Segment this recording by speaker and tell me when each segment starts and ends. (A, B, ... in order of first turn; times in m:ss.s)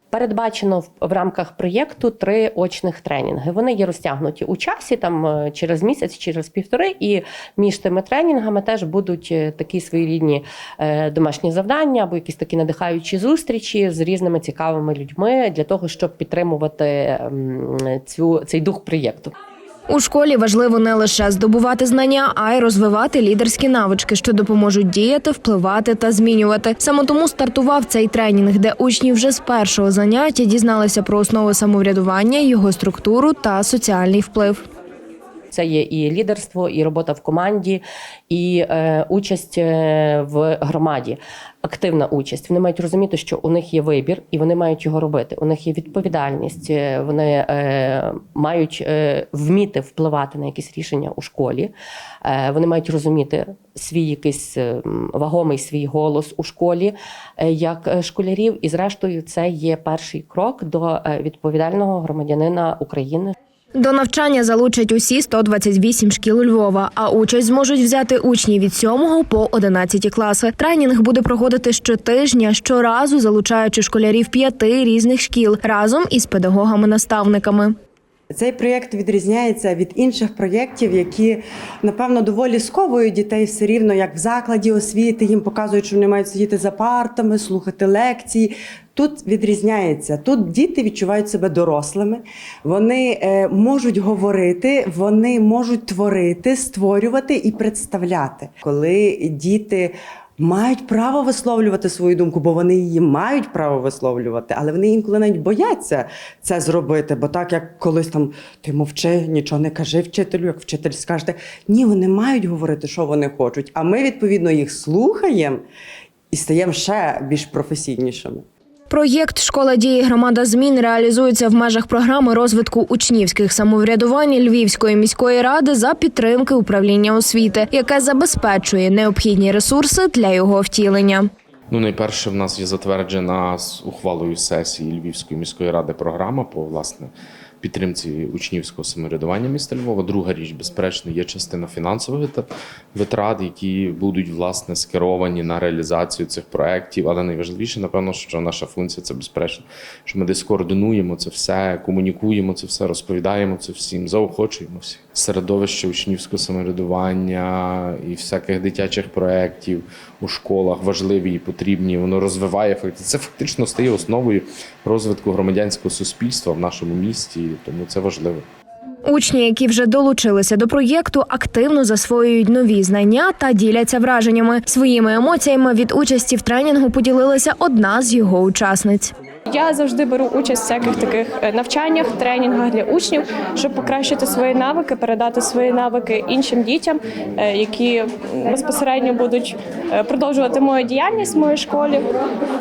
0:00.1-0:19.3 A
0:19.9-0:34.6 B
0:35.5-0:51.7 A
0:52.2-1:03.3 A
1:03.8-1:17.8 B
1:18.3-1:55.6 C
1:56.3-1:58.4 C
1:58.9-2:11.3 B
2:11.7-2:48.4 D
2:49.0-2:59.1 B
2:59.5-3:12.1 E